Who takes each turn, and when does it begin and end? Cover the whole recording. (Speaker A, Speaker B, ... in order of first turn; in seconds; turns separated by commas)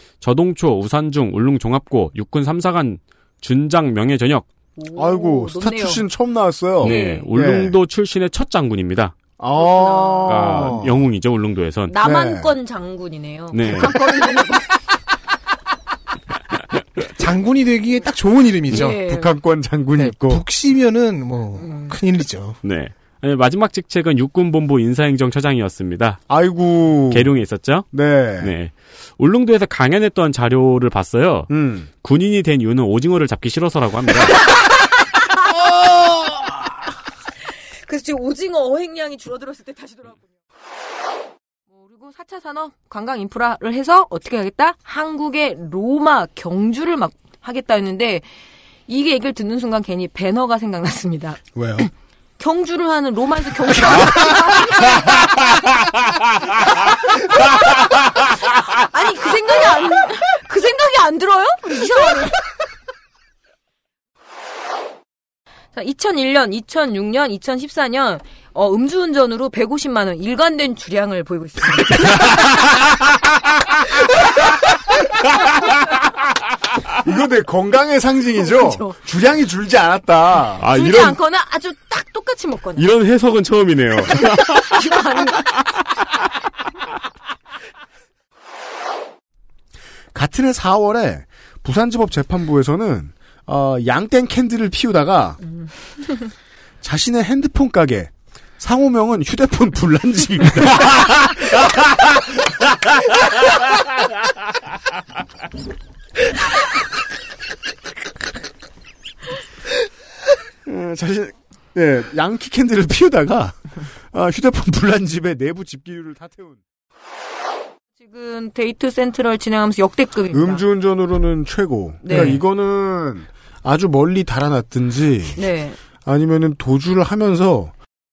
Speaker A: 0.2-4.5, Speaker B: 4.8-6.0, Speaker C: 4.9-7.8, Speaker A: 6.8-9.2, Speaker B: 6.8-7.2, Speaker C: 9.4-11.0, Speaker B: 9.6-10.5, Speaker A: 10.2-11.9, Speaker B: 11.9-14.7, Speaker C: 12.0-12.5, Speaker A: 13.5-13.9, Speaker D: 17.2-19.0, Speaker B: 18.7-19.3, Speaker C: 18.7-20.4, Speaker D: 20.0-22.6, Speaker B: 21.6-22.0, Speaker A: 22.6-26.2, Speaker C: 26.3-27.3, Speaker A: 27.1-31.5, Speaker C: 27.9-28.5, Speaker C: 31.5-31.9, Speaker A: 32.0-34.5, Speaker C: 35.7-36.4, Speaker B: 37.8-40.2, Speaker B: 41.7-48.3, Speaker B: 48.9-51.4, Speaker C: 51.5-51.9, Speaker B: 52.4-55.4, Speaker B: 57.4-62.4, Speaker B: 65.7-72.2, Speaker C: 77.0-80.6, Speaker B: 78.4-79.0, Speaker A: 80.6-81.2, Speaker B: 80.7-82.8, Speaker A: 82.8-84.8, Speaker B: 84.2-85.5, Speaker C: 90.1-95.4, Speaker C: 96.8-102.5, Speaker C: 110.6-116.6, Speaker B: 118.0-120.6, Speaker C: 120.3-125.4, Speaker B: 122.0-122.3, Speaker A: 122.1-122.4, Speaker B: 125.4-125.8, Speaker C: 126.0-127.7